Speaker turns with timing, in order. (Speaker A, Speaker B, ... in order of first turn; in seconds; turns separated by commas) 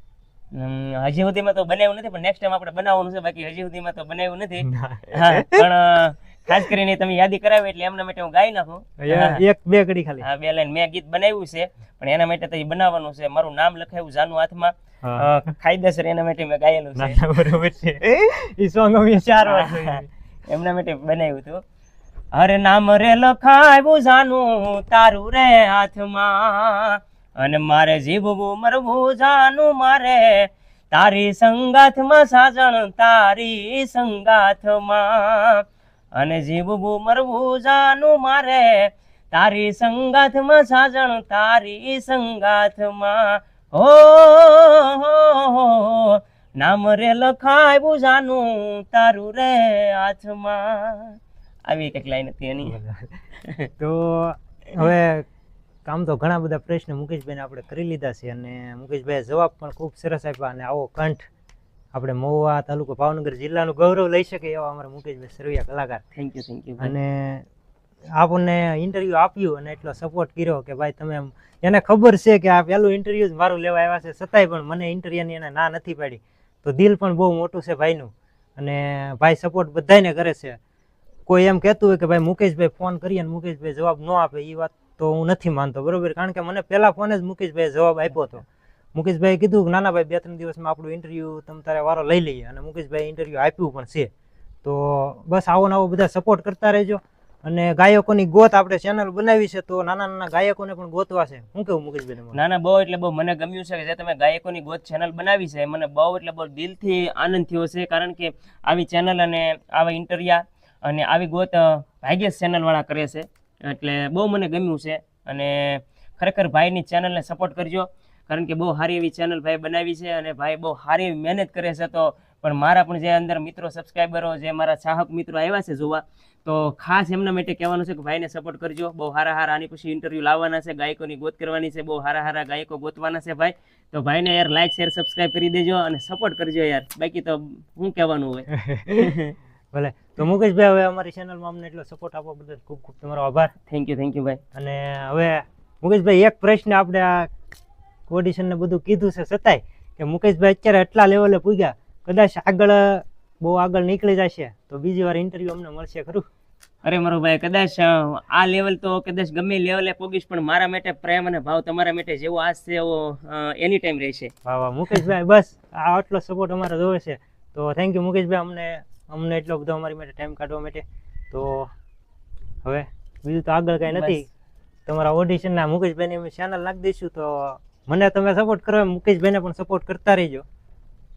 Speaker A: 0.5-9.4, Speaker B: 4.6-5.7, Speaker B: 9.0-10.2, Speaker A: 10.2-17.2, Speaker B: 15.0-15.4, Speaker B: 16.9-20.1, Speaker A: 19.4-21.6, Speaker A: 22.3-35.6, Speaker A: 36.1-52.8, Speaker B: 52.6-53.1, Speaker A: 53.4-53.7, Speaker B: 53.8-55.3, Speaker B: 55.9-61.2, Speaker B: 61.9-66.0, Speaker A: 66.1-66.9, Speaker B: 66.8-67.5, Speaker B: 68.2-80.6, Speaker B: 81.3-88.4, Speaker B: 88.9-94.1, Speaker B: 94.6-102.4, Speaker A: 102.3-139.3, Speaker B: 138.5-139.2, Speaker B: 139.7-143.5, Speaker A: 143.7-144.4, Speaker B: 144.5-147.3, Speaker B: 148.1-156.2, Speaker A: 156.8-164.3, Speaker B: 164.4-171.7, Speaker B: 172.6-174.3, Speaker A: 173.9-174.2, Speaker B: 174.9-180.4